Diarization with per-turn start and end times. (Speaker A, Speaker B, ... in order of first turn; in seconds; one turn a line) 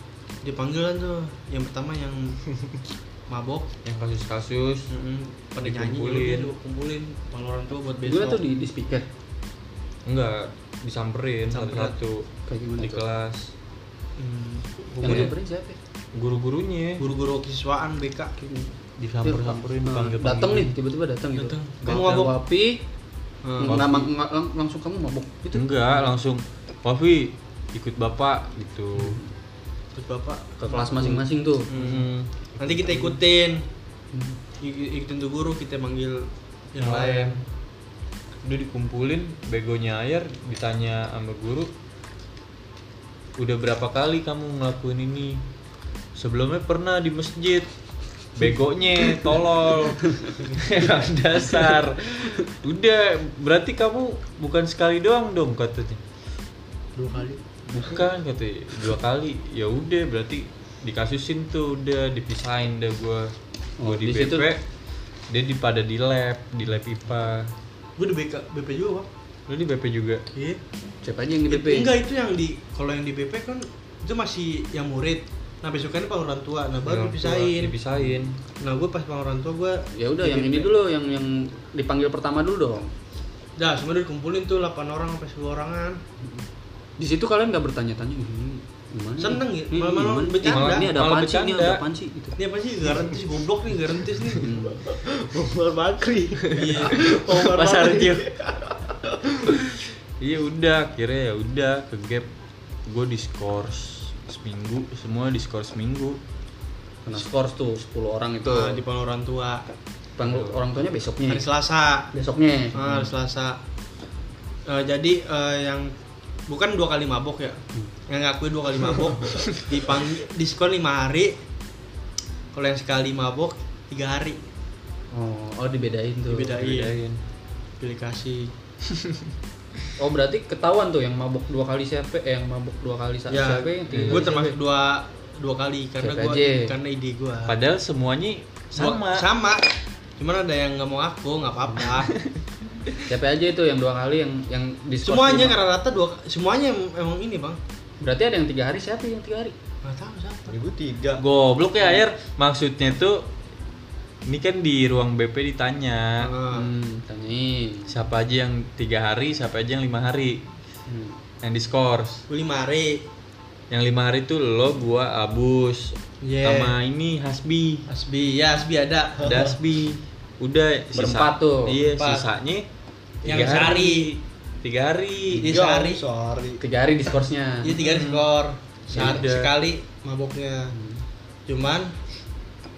Speaker A: 0.4-2.5
Speaker A: 3.3-3.7
Speaker B: 3.8-4.9
Speaker A: 4.9-8.4
Speaker B: 5.6-6.5
Speaker C: 8.0-9.1
Speaker B: 10.1-13.5
Speaker A: 11.5-12.0
Speaker C: 12.5-13.0
Speaker A: 14.2-15.3
Speaker C: 15.0-15.8
Speaker B: 15.0-15.3
Speaker B: 16.1-17.1
Speaker A: 17.0-18.4
Speaker C: 18.4-18.7
Speaker B: 19.0-20.7
Speaker C: 19.2-22.8
Speaker A: 21.4-22.3
Speaker B: 21.8-22.3
Speaker A: 23.4-24.0
Speaker C: 23.6-26.0
Speaker B: 23.7-24.1
Speaker B: 25.5-29.2
Speaker C: 29.0-29.3
Speaker A: 29.9-33.6
Speaker C: 30.6-31.7
Speaker B: 31.7-33.2
Speaker A: 34.6-37.4
Speaker B: 36.8-37.4
Speaker B: 38.4-41.7
Speaker B: 43.4-45.4
Speaker B: 46.1-47.7
Speaker B: 48.4-56.0
Speaker A: 50.4-50.6
Speaker A: 57.0-57.4
Speaker B: 57.7-64.6
Speaker C: 63.8-64.5
Speaker B: 65.3-67.5
Speaker A: 68.0-69.1
Speaker B: 69.5-70.2
Speaker A: 70.3-70.6
Speaker C: 71.0-71.9
Speaker A: 71.5-77.8
Speaker B: 76.8-78.4
Speaker A: 78.6-80.7
Speaker C: 79.9-82.9
Speaker A: 83.6-86.0
Speaker C: 87.0-92.4
Speaker A: 89.2-90.9
Speaker B: 90.4-91.9
Speaker A: 92.4-94.5
Speaker C: 94.3-94.8
Speaker D: 94.8-99.5
Speaker A: 96.5-97.2
Speaker B: 97.0-98.4
Speaker B: 99.5-102.3
Speaker B: 102.9-106.2
Speaker C: 107.0-108.8
Speaker A: 108.4-109.7
Speaker C: 110.2-111.5
Speaker B: 110.2-110.6
Speaker A: 111.3-112.1
Speaker C: 112.1-113.1
Speaker A: 112.7-113.6
Speaker A: 114.7-115.9
Speaker A: 116.5-121.4
Speaker A: 122.5-124.4
Speaker C: 125.1-126.6
Speaker A: 126.3-127.0
Speaker B: 126.5-127.2
Speaker A: 127.8-128.5
Speaker C: 130.0-134.6
Speaker A: 133.3-137.6
Speaker B: 133.9-134.3
Speaker C: 136.0-136.7
Speaker B: 137.5-139.3
Speaker A: 138.7-139.7
Speaker A: 140.2-142.1
Speaker C: 143.1-145.6
Speaker A: 145.0-147.6
Speaker C: 148.0-149.6
Speaker A: 149.8-150.6
Speaker D: 150.5-151.2
Speaker B: 151.2-153.3
Speaker B: 154.3-156.3
Speaker A: 156.2-156.7
Speaker C: 156.5-157.9
Speaker B: 157.9-160.5
Speaker C: 160.9-161.2
Speaker B: 161.4-162.2
Speaker A: 162.3-163.1
Speaker B: 163.7-167.9
Speaker A: 166.2-166.8
Speaker A: 167.9-169.5
Speaker B: 169.2-172.7
Speaker C: 170.9-171.8
Speaker A: 171.9-172.3
Speaker B: 173.2-175.5
Speaker A: 173.2-174.1
Speaker D: 175.3-176.6
Speaker A: 175.3-176.0
Speaker C: 176.6-178.0
Speaker A: 177.6-180.7
Speaker B: 178.9-179.5
Speaker C: 180.7-181.0
Speaker A: 181.5-181.9